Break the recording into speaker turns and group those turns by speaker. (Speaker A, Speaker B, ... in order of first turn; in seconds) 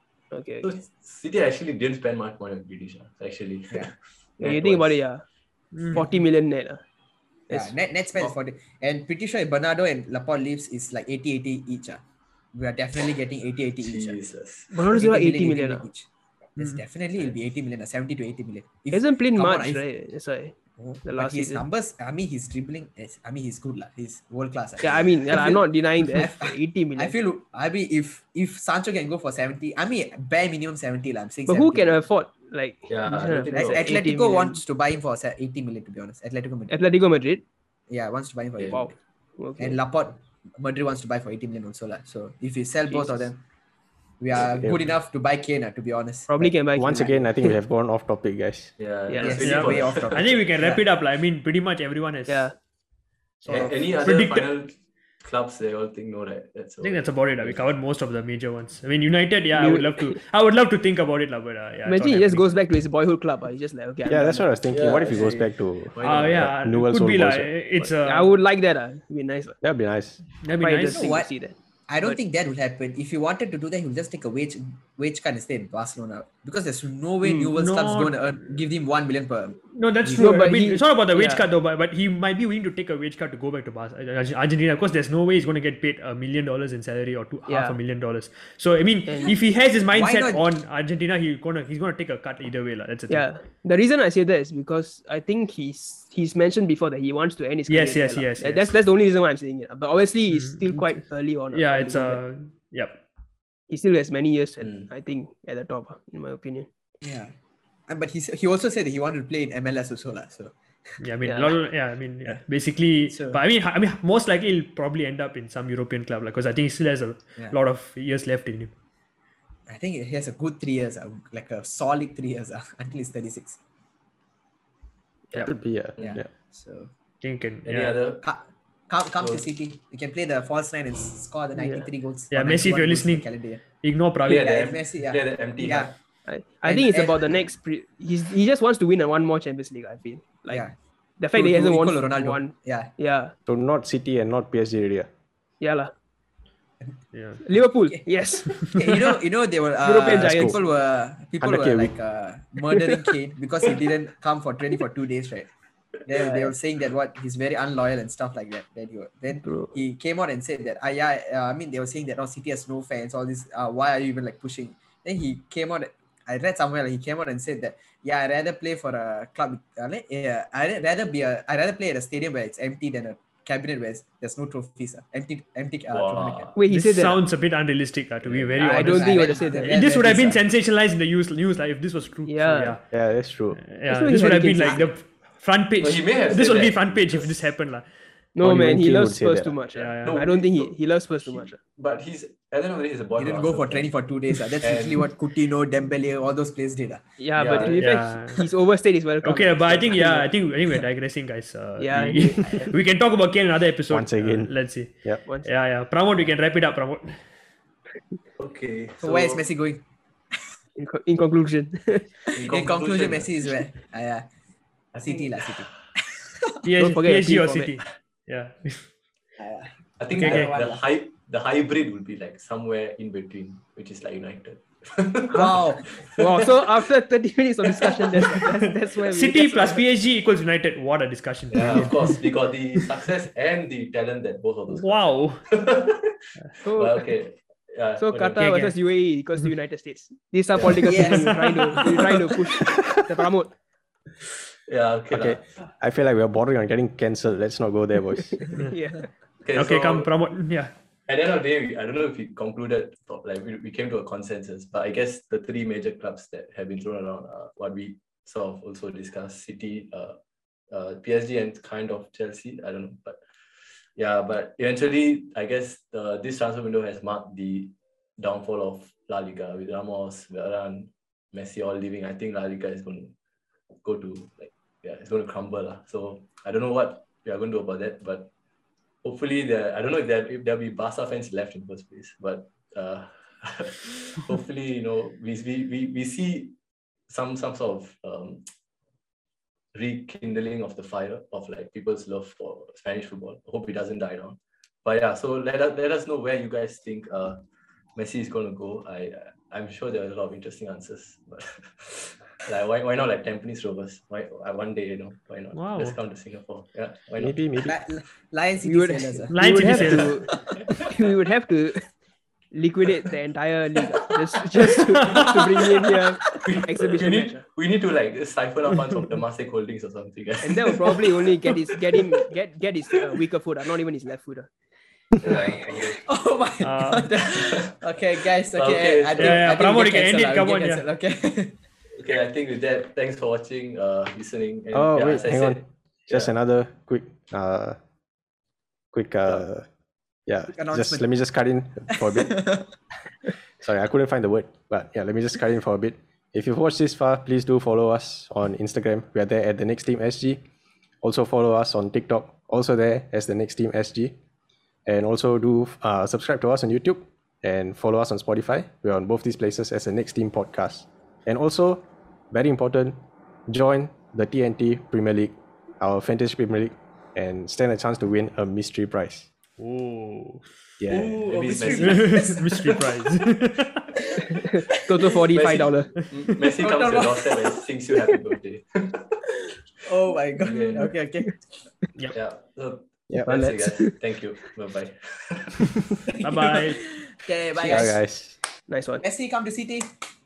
Speaker A: 0.3-0.7, 4.4-5.2, 5.9-6.8, 14.7-15.9, 18.9-21.6, 24.8-27.1, 31.5-34.6, 36.7-37.4, 38.7-39.8, 42.9-43.2, 46.3-47.6, 49.1-49.5, 52.3-52.5, 59.5-60.2, 61.9-65.2, 68.0-69.6, 70.6-72.2, 77.2-77.5, 80.2-81.4, 87.5-87.8, 89.1-89.3, 93.1-102.2, 103.7-106.7, 111.2-111.5, 131.5-131.9, 136.3-140.7, 141.2-143.3, 145.6-145.9, 147.4-149.1, 149.8-150.6, 156.2-156.5, 159.4-159.7, 176.6-177.2, 178.6-179.8, 182.2-182.8, 183.9-184.9, 188.3-191.6, 197.2-200.3, 201.8-202.7, 210.8-212.3, 216.8-217.7, 226.2-229.8, 236.6-237.0, 238.0-243.5, 248.4-249.1, 308.6-311.9, 312.5-317.4, 320.4-324.5, 325.2-325.8, 374.3-375.9, 380.6-381.3, 383.2-384.0, 388.7-389.0
Speaker B: 0.6-5.0, 13.8-14.8, 32.9-33.9, 38.6-38.8, 48.8-50.4, 53.5-57.6, 64.7-66.5, 104.6-104.9, 127.6-128.2, 129.2-129.4, 134.3-135.9, 175.9-176.6, 178.2-178.6, 185.8-187.4, 189.7-193.9, 194.6-195.1, 197.3-197.9, 208.4-209.4, 212.3-213.6, 214.9-215.3, 220.0-226.6, 227.8-228.3, 231.5-236.1, 236.7-238.4, 240.5-240.8, 244.7-245.5, 249.4-250.1, 251.1-260.2, 260.7-263.2, 263.9-273.1, 273.8-278.3, 279.0-286.5, 287.1-288.4, 289.7-297.4, 297.9-307.6, 316.4-322.0, 325.2-326.0, 327.2-327.8, 328.5-329.5, 332.0-336.3, 370.9-372.4, 375.3-379.1, 380.4-380.9, 382.1-385.8
Speaker C: 5.7-6.0, 16.6-16.8, 49.4-52.5, 53.4-54.5, 56.8-62.6, 66.0-68.3, 70.4-71.1, 77.5-78.4, 79.7-93.3, 97.7-98.7, 100.3-100.9, 101.5-103.0, 111.0-118.7, 127.2-128.0, 132.3-133.3, 133.8-134.6, 147.1-147.4, 148.5-148.8, 176.7-182.8, 183.6-187.9, 189.7-190.2, 197.8-198.4, 199.2-207.2, 216.6-218.9, 220.2-220.5, 229.0-232.1, 234.7-235.5, 238.4-238.7, 240.9-241.8, 249.5-250.7, 305.5-306.0, 309.3-310.2, 315.0-315.3, 326.6-327.1, 329.2-330.8, 369.6-370.5, 371.6-373.9, 386.2-386.9
Speaker D: 7.5-12.0, 12.5-14.2, 14.9-19.8, 20.8-32.0, 33.5-36.7, 37.9-38.9, 39.6-43.4, 44.2-46.3, 49.2-50.8, 53.5-53.7, 64.8-65.1, 70.9-71.3, 71.9-80.5, 89.9-90.4, 107.0-107.3, 107.9-110.5, 113.1-113.4, 119.7-123.6, 126.0-126.9, 128.2-133.6, 134.3-135.9, 136.6-137.4, 140.5-140.7, 141.3-142.9, 148.7-155.5, 156.0-176.5, 178.6-180.4, 184.6-184.9, 193.2-197.0, 209.0-209.8, 212.3-214.2, 215.0-216.6, 219.4-220.8, 225.3-225.8, 240.8-241.3, 307.6-310.2, 326.1-331.6, 340.5-341.0, 341.9-342.6, 371.2-372.8, 376.6-377.4, 379.8-381.4, 386.2-388.0, 389.0-389.9
Speaker E: 46.4-48.8, 64.0-67.6, 69.6-70.4, 125.4-126.3, 143.4-145.1, 150.0-150.6, 151.4-151.9, 182.9-183.6, 188.4-189.6, 203.9-205.2, 245.1-248.6, 307.2-307.8, 334.7-337.8, 338.9-339.7, 340.3-342.6, 343.6-350.4, 351.0-354.1, 354.9-369.3, 370.8-371.2, 383.1-383.5, 387.6-388.4